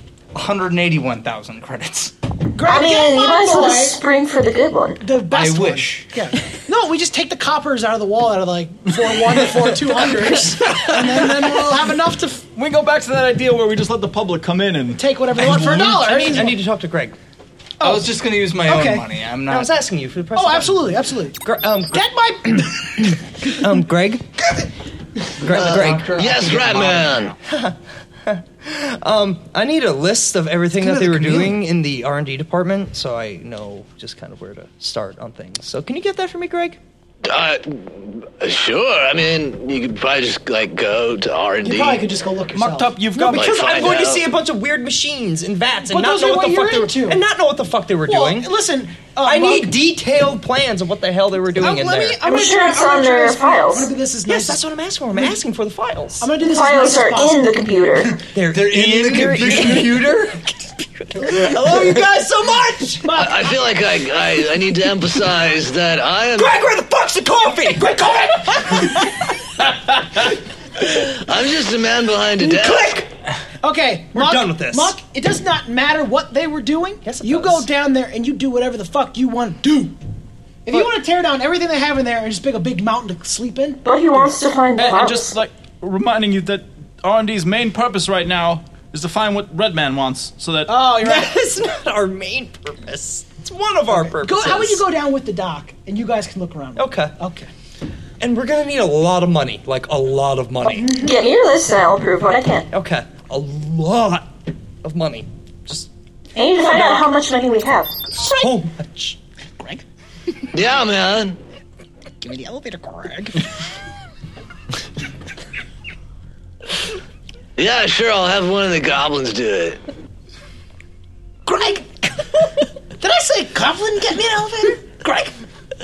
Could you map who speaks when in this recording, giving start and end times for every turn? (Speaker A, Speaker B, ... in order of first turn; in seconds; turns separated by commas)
Speaker A: 0.3-2.1, Speaker B: 2.5-4.0, Speaker C: 2.6-5.0, Speaker B: 5.0-12.4, Speaker A: 5.3-6.1, Speaker D: 12.6-16.1, Speaker B: 15.0-16.6, Speaker E: 15.6-17.1, Speaker B: 17.8-19.1, Speaker A: 17.8-19.7, Speaker E: 19.4-22.1, Speaker B: 20.3-21.4, Speaker B: 21.9-23.2, Speaker E: 23.5-24.3, Speaker E: 25.4-26.3, Speaker A: 25.4-27.3, Speaker F: 25.5-27.3, Speaker E: 27.4-36.8, Speaker B: 30.8-31.4, Speaker F: 37.2-42.0, Speaker B: 41.6-43.3, Speaker D: 42.5-43.8, Speaker E: 43.1-48.5, Speaker F: 43.3-44.2, Speaker B: 45.8-47.2, Speaker B: 48.0-49.7, Speaker E: 49.2-52.2, Speaker B: 51.6-54.6, Speaker C: 52.2-53.9, Speaker E: 54.3-56.3, Speaker B: 56.2-57.6, Speaker C: 56.4-58.2, Speaker E: 58.3-60.4, Speaker A: 58.5-60.1, Speaker E: 61.2-63.1, Speaker B: 63.0-63.5, Speaker F: 63.1-66.6, Speaker E: 66.4-67.9, Speaker B: 67.8-69.1, Speaker F: 71.0-73.0, Speaker E: 72.5-73.0, Speaker B: 73.6-79.9, Speaker E: 74.1-75.0, Speaker E: 77.0-77.7, Speaker B: 80.6-83.8, Speaker C: 83.8-85.3, Speaker D: 84.8-90.8, Speaker B: 90.7-91.4, Speaker E: 91.0-94.8, Speaker B: 93.9-97.5, Speaker E: 96.8-97.1, Speaker E: 98.2-100.9, Speaker C: 100.8-102.7, Speaker E: 102.7-104.3, Speaker E: 104.8-105.9, Speaker C: 106.3-108.0, Speaker E: 108.2-109.2, Speaker B: 108.2-108.5, Speaker F: 110.5-111.4, Speaker B: 112.2-113.5, Speaker F: 117.6-119.8, Speaker B: 121.5-122.4, Speaker B: 123.0-125.3